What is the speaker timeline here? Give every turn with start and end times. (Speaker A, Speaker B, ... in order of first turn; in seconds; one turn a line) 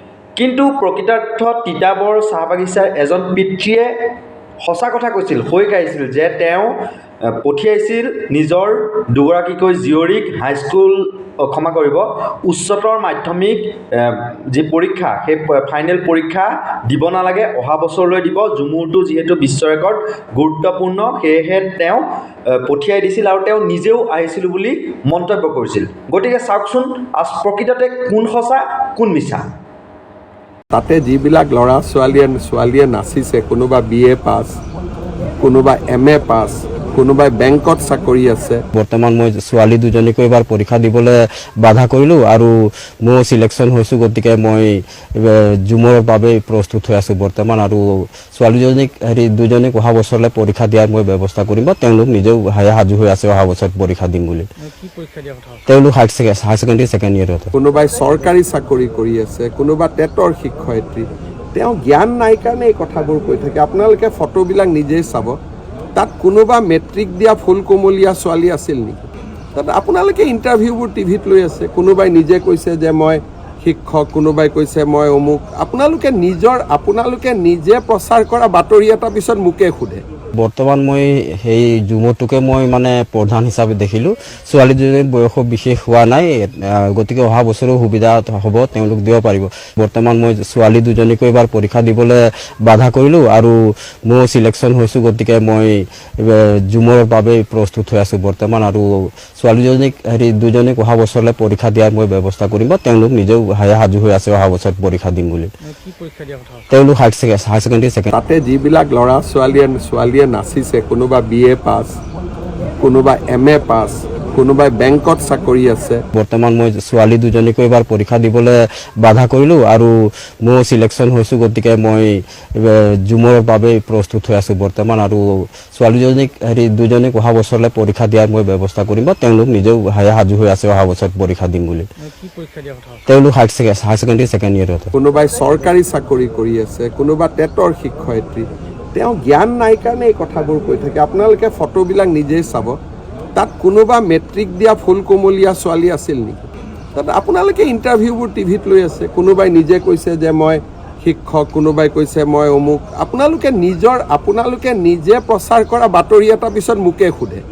Speaker A: 0.4-4.1
Speaker A: 4.6-29.5
Speaker B: 30.7-34.6
Speaker B: 35.4-38.6
Speaker C: 38.7-54.5
Speaker D: 54.6-55.6
Speaker C: 55.7-57.5
Speaker B: 57.5-65.4
Speaker B: 66.0-80.0
Speaker C: 80.4-105.5
Speaker D: 105.6-106.7
Speaker C: 106.7-108.1
Speaker B: 108.1-112.0
Speaker B: 112.8-116.0
Speaker C: 116.1-131.9
Speaker D: 132.0-133.0
Speaker C: 133.1-134.9
Speaker B: 134.9-142.8
Speaker B: 143.3-157.4